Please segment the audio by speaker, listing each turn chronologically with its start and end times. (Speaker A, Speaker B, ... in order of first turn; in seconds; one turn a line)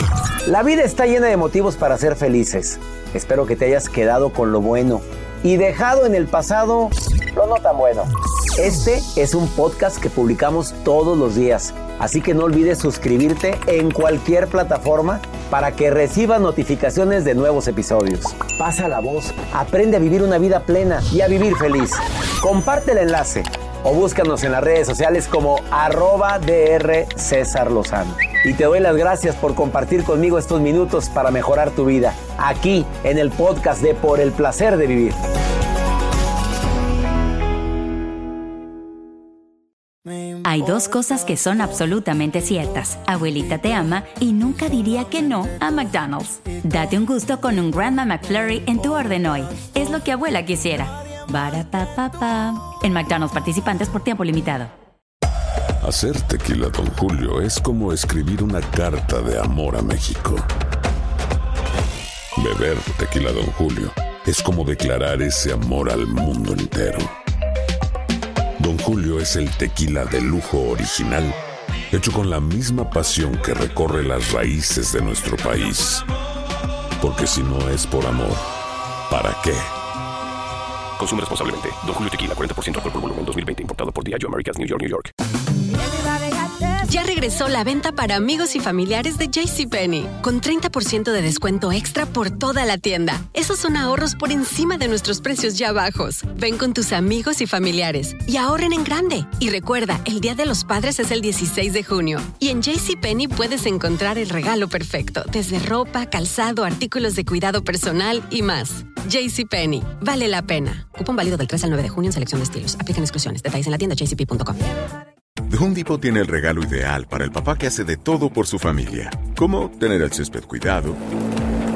Speaker A: 0.4-35.2
Speaker B: 40.4-54.7
Speaker C: 55.8-60.5
Speaker C: 62.4-67.1
Speaker C: 68.6-71.4
Speaker C: 71.9-76.0
Speaker C: 77.0-78.4
Speaker C: 79.1-79.7
Speaker D: 81.0-85.1
Speaker E: 86.8-114.6
Speaker F: 115.5-121.0